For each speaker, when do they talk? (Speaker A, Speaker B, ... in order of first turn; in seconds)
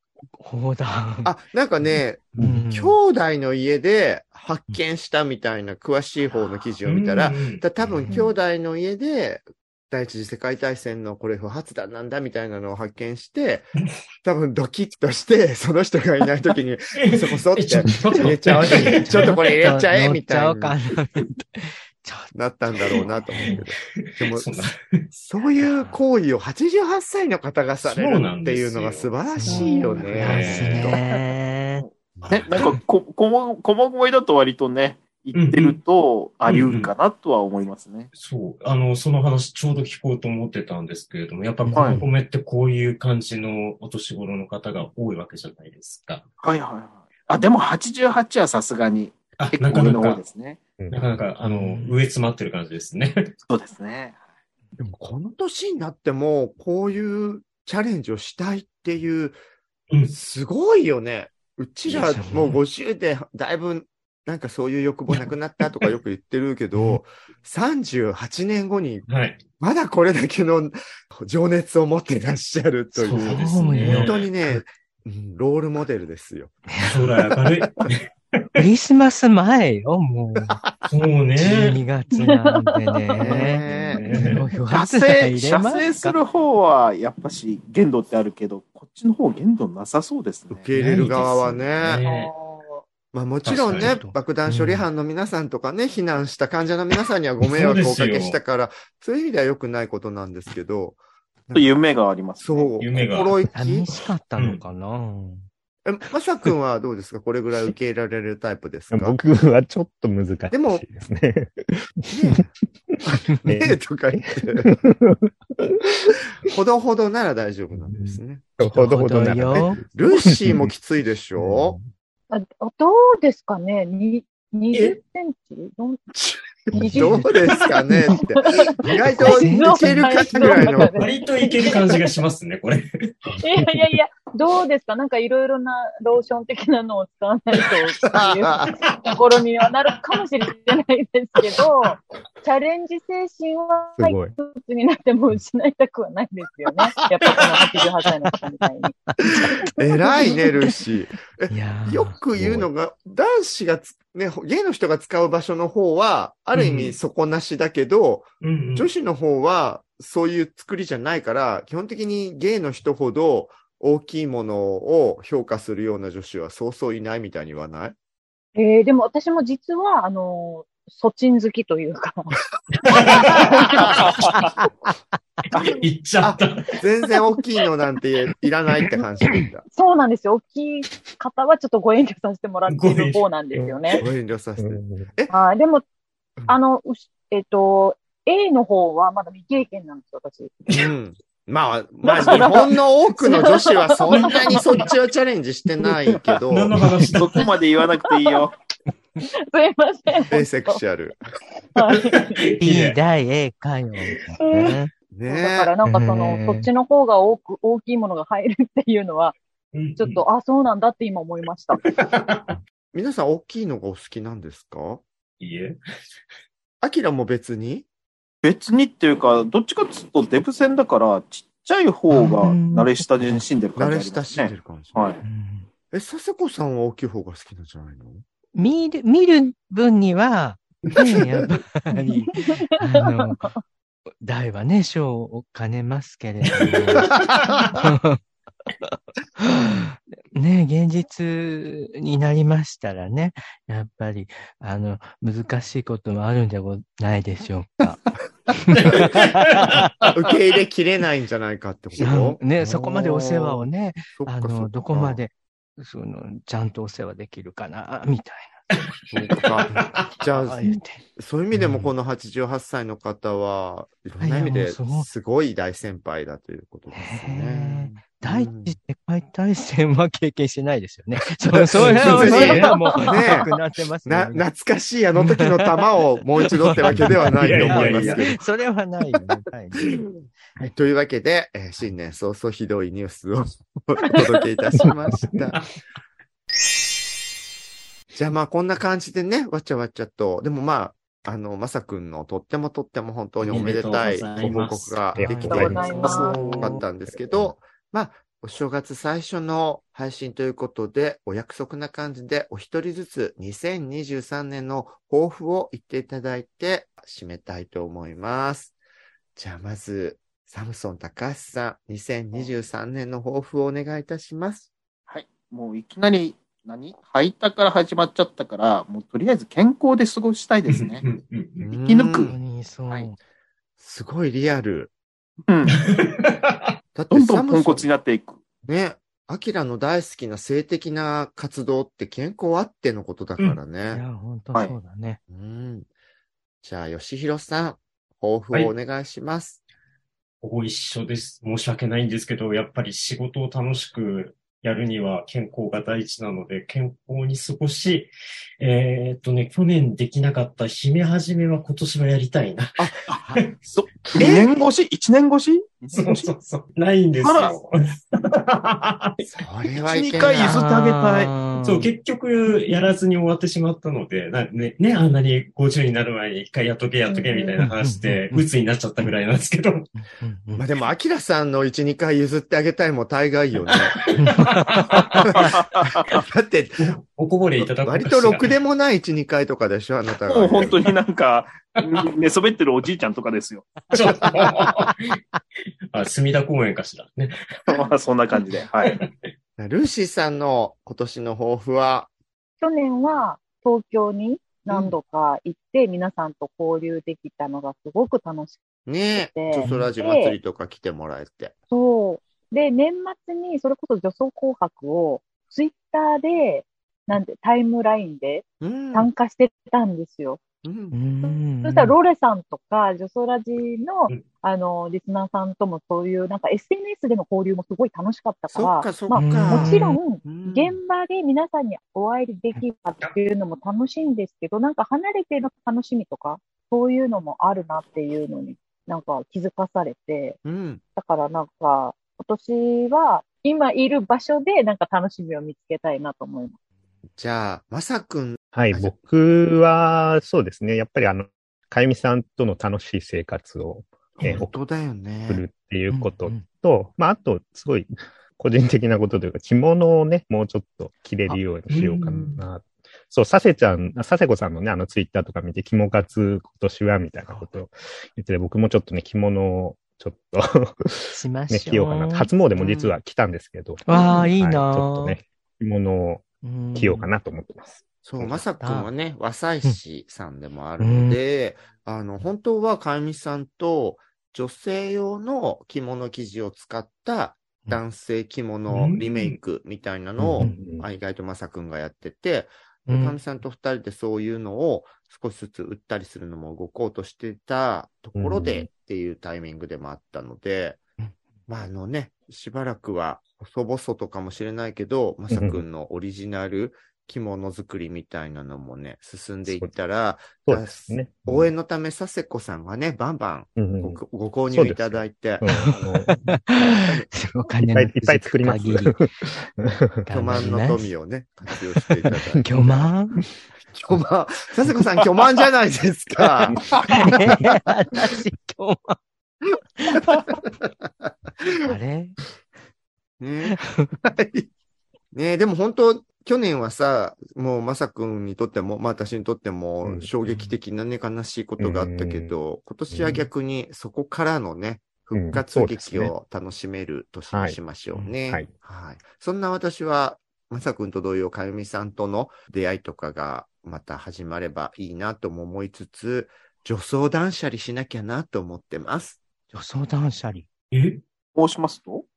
Speaker A: 0.4-1.3, 2.4-3.0, 6.3-6.5, 18.6-23.6, 25.6-26.0, 29.3-31.9, 41.7-42.1, 51.6-51.8, 61.9-62.6, 73.2-74.2, 76.7-77.1, 78.5-80.6, 81.4-86.2, 90.8-91.1, 93.5-94.9, 103.5-105.5, 118.6-119.8, 126.8-127.4, 129.2-130.8, 149.1-150.4, 151.5-152.2, 202.6-204.9, 205.9-206.7, 222.1-223.5, 225.2-225.7, 228.5-233.5, 234.2-237.2, 237.7-238.2, 238.8-248.0, 248.6-249.9, 252.0-258.7, 260.2-261.9, 264.2-265.1, 266.9-274.5, 275.2-275.7, 276.6-279.9, 295.2-296.8, 322.3-323.2, 333.9-335.2, 360.4-361.9, 367.6-368.5, 370.0-370.6, 374.1-375.3, 410.9-412.0, 419.1-420.0, 445.9-446.4, 457.3-457.5, 461.1-462.3, 463.9-465.2, 466.4-467.1, 468.6-468.9, 470.8-471.2, 482.9-483.2, 505.4-509.1, 510.1-510.9, 512.5-513.2, 516.9-519.0, 519.8-520.2, 521.5-522.2, 523.5-523.9, 549.5-550.5
Speaker B: 1.2-20.8, 22.3-30.9, 32.2-32.7, 54.8-59.4, 60.1-69.1, 69.6-76.6, 80.5-80.9, 83.3-84.0, 90.5-92.0, 93.1-101.8, 102.4-104.0, 105.8-109.2, 110.5-110.8, 112.1-112.5, 113.1-114.7, 116.4-118.4, 119.9-121.8, 126.1-131.0, 138.1-138.8, 149.3-168.0, 172.9-173.9, 176.2-179.7, 184.0-185.3, 190.7-196.7, 200.3-201.2, 205.1-205.7, 212.9-215.0, 216.8-217.8, 223.8-225.2, 225.9-228.2, 237.1-237.6, 248.5-249.1, 250.1-252.4, 254.1-255.2, 259.1-268.8, 271.6-273.5, 274.1-278.5, 279.9-285.6, 288.1-308.8, 309.4-314.7, 321.6-322.4, 323.8-324.9, 326.9-327.9, 328.6-334.0, 335.3-335.9, 336.6-339.6, 354.1-354.7, 359.2-360.6, 370.6-374.0, 376.0-376.9, 377.6-380.8, 389.6-392.1, 398.9-401.6, 408.6-409.1, 410.6-411.1, 418.5-420.8, 430.4-430.8, 437.2-438.9, 444.2-445.4, 462.6-462.9, 468.0-490.8, 491.5-505.4, 506.6-507.1, 510.1-512.9, 513.6-517.4, 520.1-520.7, 523.2-524.5, 525.1-549.2
Speaker C: 2.4-2.6, 50.8-51.2, 108.9-116.2, 117.7-120.7, 121.4-121.9, 133.3-133.9, 144.0-144.3, 152.3-152.7, 184.6-185.1, 295.1-296.2, 297.1-297.6, 438.5-444.6, 445.3-468.4, 480.2-480.8, 488.2-488.7, 495.3-495.6, 499.4-499.7, 500.4-501.5, 503.6-506.4, 507.6-510.1, 529.8-530.4, 531.6-532.4, 532.9-533.2, 535.1-536.1, 537.3-538.5
Speaker D: 6.9-7.6, 17.1-19.4, 24.0-25.0, 27.8-29.1, 30.2-31.0, 35.3-35.8, 36.5-36.9, 38.1-46.2, 49.4-50.2, 50.9-53.3, 69.1-69.4, 73.0-74.3, 76.9-78.1, 80.9-81.8, 83.3-84.4, 90.8-92.3, 93.5-94.0, 97.4-98.4, 102.8-103.3, 124.7-125.0, 130.9-132.9, 138.9-139.2, 147.3-147.7, 156.6-157.0, 158.4-158.9, 172.8-174.5, 175.8-176.7, 182.7-183.2, 194.1-194.9, 196.5-197.5, 201.9-203.0, 204.3-204.8, 209.7-210.2, 211.9-212.6, 215.4-215.8, 236.6-237.3, 259.3-259.7, 271.7-272.7, 277.4-278.2, 293.4-295.0, 295.7-296.7, 320.7-321.6, 325.8-326.7, 340.4-352.9, 355.9-359.1, 361.6-369.9, 374.8-375.3, 376.8-378.5, 383.9-385.1, 385.9-387.4, 388.9-389.1, 451.7-452.4, 478.7-479.4, 550.7-551.0
Speaker E: 29.5-30.0, 82.1-83.5, 92.0-92.8, 122.3-126.0, 126.8-127.2, 128.2-132.1, 133.4-149.0, 168.6-172.4, 179.7-184.0, 185.3-185.8, 186.5-190.6, 192.2-194.8, 199.3-200.8, 201.8-202.5, 205.3-209.3, 210.0-211.8, 232.0-233.6, 272.3-273.0, 295.5-296.7, 367.1-367.6, 392.6-400.4, 401.7-410.4, 411.2-430.4, 431.0-436.6
Speaker F: 31.8-38.1, 41.7-42.0, 46.4-50.6, 53.5-54.2, 84.7-90.7, 101.5-102.7, 173.9-174.4, 197.2-198.6, 218.4-225.2, 252.7-253.4, 315.1-321.0, 321.8-322.3, 325.5-325.8, 327.1-328.4, 353.1-356.3, 357.2-357.6, 359.9-361.3, 375.4-376.1, 380.2-383.7, 387.7-389.0, 551.4-552.0